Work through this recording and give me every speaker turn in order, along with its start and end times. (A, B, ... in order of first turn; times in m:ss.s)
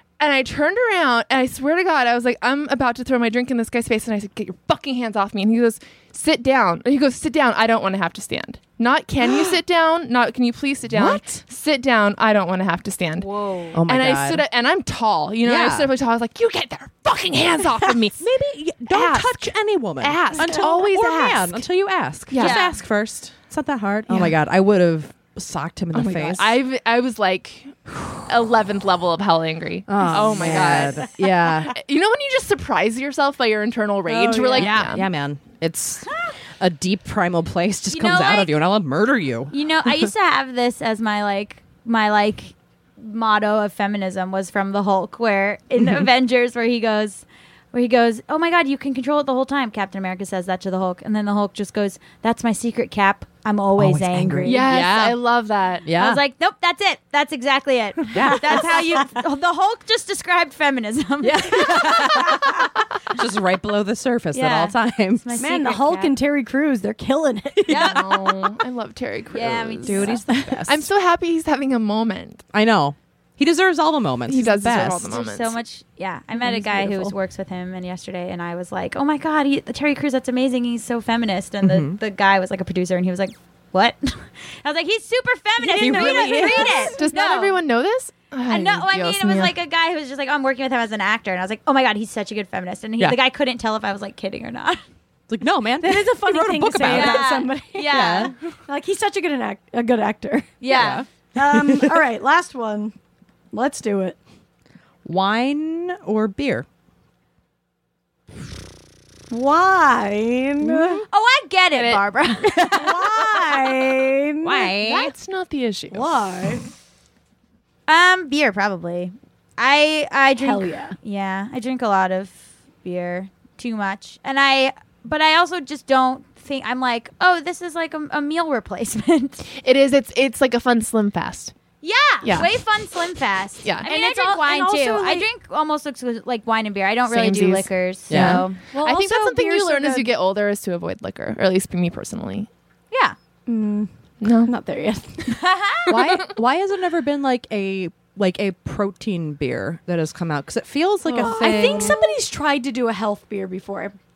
0:00.2-0:13.3 A
0:10.9-0:11.4 B
0:13.2-0:13.8 C
0:13.7-0:14.4 B
0:13.8-0:18.3 A
0:15.4-0:15.9 B
0:18.2-0:26.6 B
0:18.9-0:21.6 A
0:22.3-0:22.7 A
0:22.4-0:22.7 C
0:24.1-0:24.4 A
0:25.9-0:35.0 A
0:29.9-0:31.7 B
0:30.0-0:30.8 D
0:34.0-0:34.7 D
0:34.6-0:40.0 B
0:37.9-0:38.5 C
0:39.5-0:54.7 C
0:53.8-0:55.2 B
0:54.4-0:55.9 A
0:55.8-0:56.2 B
0:55.9-1:02.3 C
0:58.1-0:59.2 B
0:58.1-0:58.4 D
1:01.2-1:05.2 B
1:04.3-1:06.1 C
1:05.4-1:07.9 D
1:07.6-1:08.0 B
1:07.7-1:08.4 C
1:07.7-1:12.4 A
1:09.3-1:10.3 C
1:09.8-1:10.9 B
1:12.5-1:15.2 B
1:14.3-1:15.6 A
1:15.1-1:27.6 C
1:16.4-1:17.1 D
1:21.6-1:22.0 B
1:25.6-1:27.0 D
1:25.8-1:26.9 B
1:27.0-1:29.5 A
1:28.5-1:34.8 C
1:35.3-1:37.3 B
1:35.8-1:40.6 D
1:36.8-1:38.3 C
1:37.9-1:38.3 B
1:40.6-1:41.0 C
1:40.7-1:41.9 B
1:41.3-1:42.9 D
1:43.5-1:44.2 D
1:45.0-1:46.6 B
1:49.3-1:51.0 D
1:51.1-1:53.3 C
1:51.8-1:52.0 A
1:52.7-1:54.7 D
1:54.4-1:55.1 B
1:54.8-1:56.2 A
1:55.9-1:56.6 D
1:57.9-2:09.5 C
2:00.4-2:01.0 D
2:09.6-2:11.5 A
2:11.8-2:18.6 C
2:12.2-2:12.6 A
2:13.8-2:15.2 D
2:17.1-2:22.5 A
2:18.1-2:18.4 B
2:18.7-2:20.1 D
2:22.9-2:23.2 C
2:23.5-2:23.9 D
2:24.2-2:24.5 A
2:24.4-2:25.4 D
2:25.3-2:26.0 C
2:25.9-2:32.0 B
2:25.9-2:26.3 A
2:31.1-2:34.0 D